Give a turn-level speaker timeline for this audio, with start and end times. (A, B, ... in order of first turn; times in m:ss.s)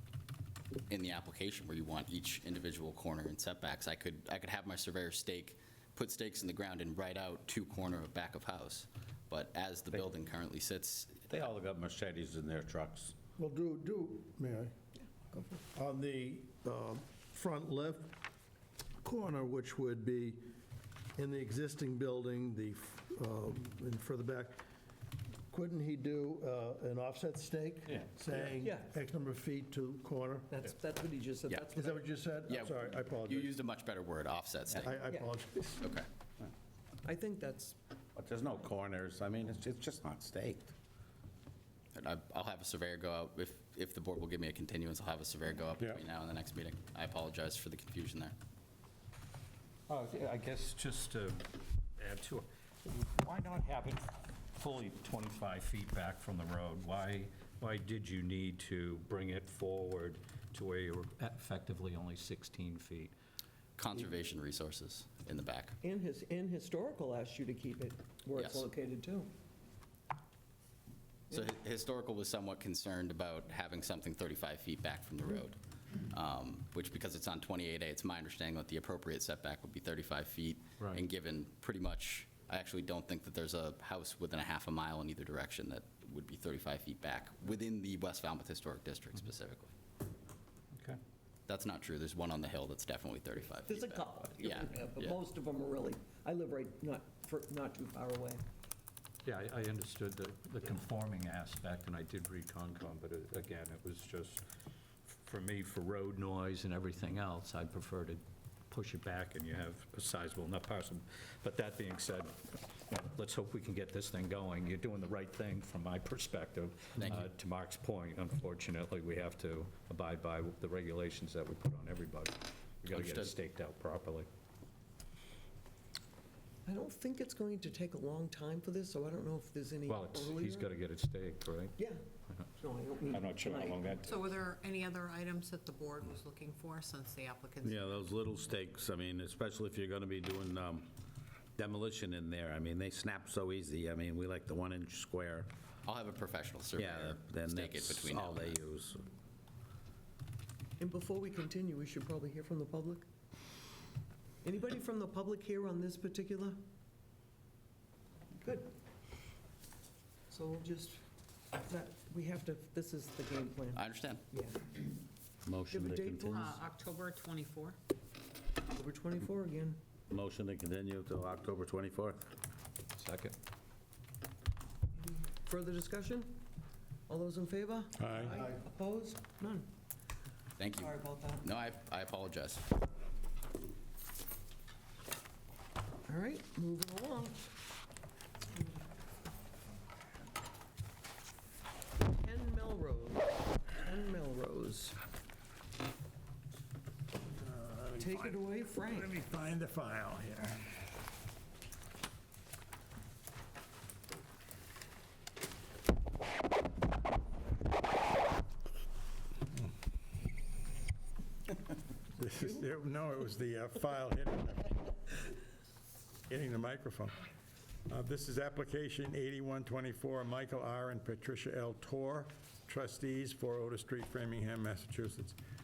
0:00.9-0:11.3 A
0:11.3-0:13.1 B
0:13.4-0:14.7 C
0:15.3-0:15.6 D
0:15.7-0:18.2 C
0:19.0-0:20.4 C
0:21.2-0:24.6 C
0:25.5-0:30.6 C
0:27.9-0:28.5 E
0:28.6-0:28.9 D
0:30.5-0:32.0 D
0:31.7-0:33.5 C
0:32.5-0:35.0 A
0:34.7-0:35.9 C
0:35.8-0:36.1 A
0:37.0-0:37.8 D
0:38.2-0:40.7 B
0:41.9-0:48.4 A
0:49.9-1:03.1 E
1:03.8-1:05.8 A
1:05.8-1:09.3 D
1:08.4-1:08.7 A
1:11.3-1:15.6 A
1:16.1-1:29.7 A
1:30.7-1:31.0 E
1:31.5-1:35.2 A
1:33.7-1:38.4 D
1:39.2-1:44.4 E
1:45.0-2:04.3 E
1:57.0-1:57.3 A
2:02.9-2:03.3 A
2:06.6-2:10.7 D
2:09.9-2:11.8 E
2:12.6-2:13.9 D
2:13.1-2:14.4 E
2:14.0-2:18.0 F
2:17.6-2:20.9 B
2:21.6-2:25.5 B
2:25.8-2:28.6 A
2:26.8-2:29.0 B
2:30.8-2:33.1 D
2:34.4-2:36.6 D
2:38.4-2:38.8 D
2:40.3-2:41.0 D
2:41.5-2:44.8 D
2:43.8-2:44.2 A
2:45.4-2:46.6 B
2:45.7-2:46.4 D
2:46.3-2:47.8 F
2:48.7-2:49.8 D
2:50.1-2:52.2 B
2:53.0-2:53.4 E
2:55.4-2:56.4 D
2:57.1-2:59.7 D
2:58.0-2:58.4 G
3:00.6-3:02.6 A
3:00.8-3:01.4 D
3:06.1-3:07.5 D
3:12.0-3:15.0 D
3:17.3-3:20.7 G
3:18.0-3:19.1 D
3:32.2-3:34.8 G
3:36.3-3:37.2 G
3:37.9-3:45.4 G